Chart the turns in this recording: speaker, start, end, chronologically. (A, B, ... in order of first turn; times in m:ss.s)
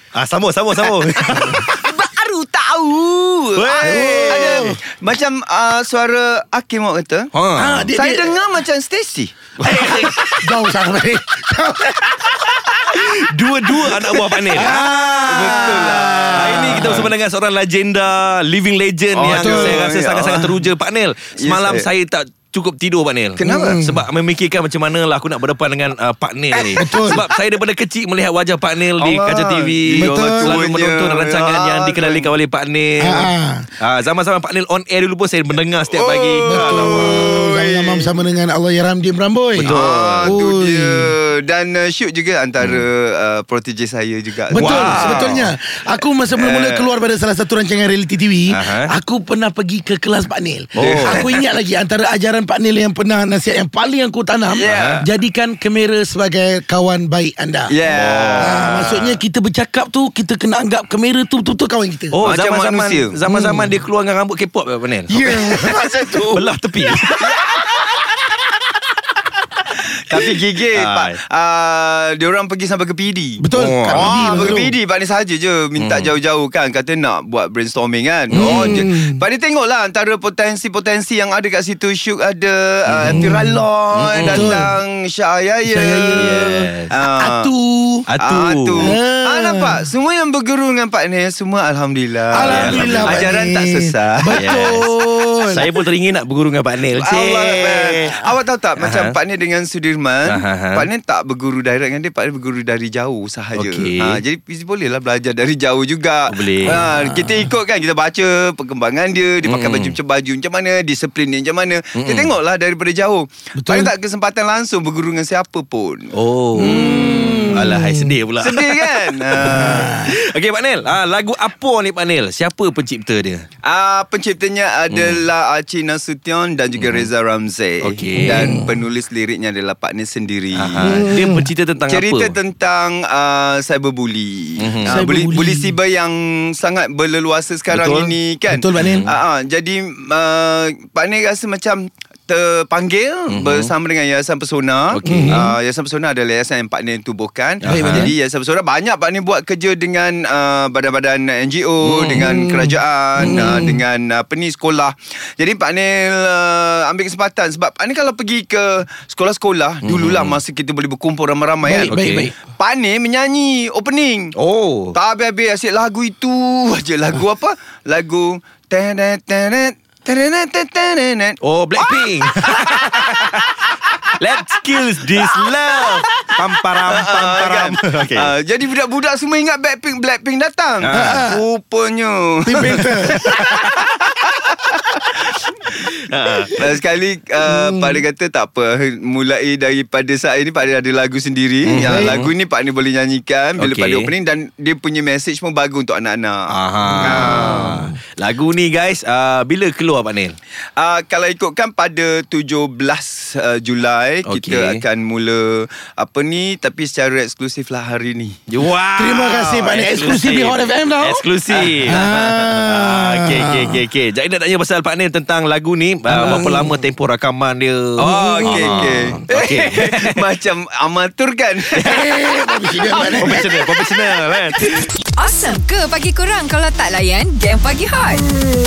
0:00.1-0:01.9 A
0:00.8-0:07.3 B
0:03.5-0:04.8 A
0:03.8-0:04.8 C
0:07.3-0:07.9 A
0:07.6-0:08.4 C
0:07.9-0:10.3 B
0:09.6-0:10.5 A
0:09.6-0:13.1 C
0:13.1-0:37.4 A
0:13.9-0:17.1 B
0:14.5-0:17.1 C
0:19.1-0:20.6 B
0:19.2-0:19.9 C
0:21.4-0:21.9 B
0:23.4-0:23.8 B
0:23.4-0:24.0 C
0:26.6-0:27.2 B
0:26.7-0:27.2 C
0:29.0-0:32.3 B
0:29.9-0:30.6 C
0:33.0-0:33.7 C
0:35.9-0:38.2 B
0:36.4-0:41.1 C
0:39.6-0:40.4 A
0:39.6-0:45.4 B
0:42.6-0:42.9 A
0:44.5-0:57.7 C
0:44.5-0:45.5 A
0:46.3-0:46.9 B
0:48.5-0:48.9 A
0:50.7-0:51.3 A
0:50.8-0:51.4 B
0:54.5-0:55.1 B
0:54.6-0:55.0 A
0:57.7-0:59.2 B
0:57.8-0:59.0 A
0:58.4-1:02.2 C
1:02.1-1:07.5 A
1:02.2-1:03.2 B
1:03.3-1:03.8 C
1:05.1-1:07.1 C
1:05.3-1:06.2 B
1:07.2-1:07.8 B
1:09.8-1:27.5 B
1:10.7-1:11.2 A
1:13.4-1:14.7 C
1:13.5-1:14.6 A
1:15.8-1:16.1 A
1:18.3-1:19.2 C
1:18.3-1:18.8 A
1:22.9-1:23.4 A
1:23.0-1:23.6 C
1:23.9-1:24.7 A
1:24.2-1:24.7 C
1:25.6-1:26.4 C
1:26.1-1:26.9 A
1:27.0-1:28.0 C
1:28.1-1:28.9 A
1:28.2-1:34.8 B
1:28.8-1:29.9 C
1:32.3-1:35.7 C
1:32.4-1:33.3 A
1:34.3-1:34.9 A
1:35.5-1:38.2 A
1:36.9-1:57.8 B
1:38.8-1:39.1 A
1:40.2-1:40.9 A
1:43.5-1:44.2 A
1:46.3-1:46.9 A
1:46.7-1:47.5 C
1:49.4-1:50.0 A
1:51.9-1:52.3 A
1:53.6-1:53.9 C
1:56.1-2:03.4 A
1:56.6-1:58.2 C
1:58.4-2:00.0 B
1:59.4-2:00.2 C
2:03.6-2:11.2 B
2:04.9-2:05.2 A
2:06.8-2:07.1 A
2:07.8-2:08.6 A
2:08.2-2:08.7 C
2:10.5-2:12.4 A
2:10.8-2:11.5 C
2:11.8-2:44.3 B
2:14.6-2:15.0 A
2:14.8-2:15.7 C
2:17.7-2:18.1 A
2:18.5-2:19.1 C
2:18.7-2:19.2 A
2:23.3-2:23.7 A
2:24.9-2:25.5 A
2:25.0-2:25.6 C
2:27.6-2:28.1 A
2:27.6-2:28.1 C
2:31.8-2:32.5 A
2:32.2-2:33.8 C
2:33.2-2:33.7 A
2:39.8-2:40.4 A
2:41.6-2:42.3 C
2:41.9-2:42.3 A
2:44.4-2:45.0 A
2:44.9-2:54.2 B
2:51.4-2:53.6 A
2:54.1-2:58.3 A
2:55.1-2:56.3 B
2:56.8-3:05.9 B
3:00.8-3:01.2 A
3:00.9-3:01.4 C
3:02.4-3:03.4 C
3:02.7-3:03.6 A
3:06.0-3:06.7 A
3:06.5-3:17.9 B
3:07.4-3:08.0 C
3:11.6-3:12.3 A
3:11.8-3:12.3 C
3:13.6-3:14.1 A
3:16.5-3:20.4 A
3:16.9-3:17.9 C
3:20.8-3:28.4 B
3:24.3-3:24.8 A
3:28.5-3:40.2 A
3:29.0-3:31.3 C
3:29.4-3:30.2 B
3:31.5-3:32.1 B
3:31.8-3:33.8 C
3:36.1-3:36.8 C
3:36.2-3:36.5 B
3:38.0-3:43.5 B
3:38.1-3:39.2 C
3:41.8-3:43.5 C
3:41.8-3:42.1 A
3:42.8-3:44.7 A
3:44.6-3:48.2 D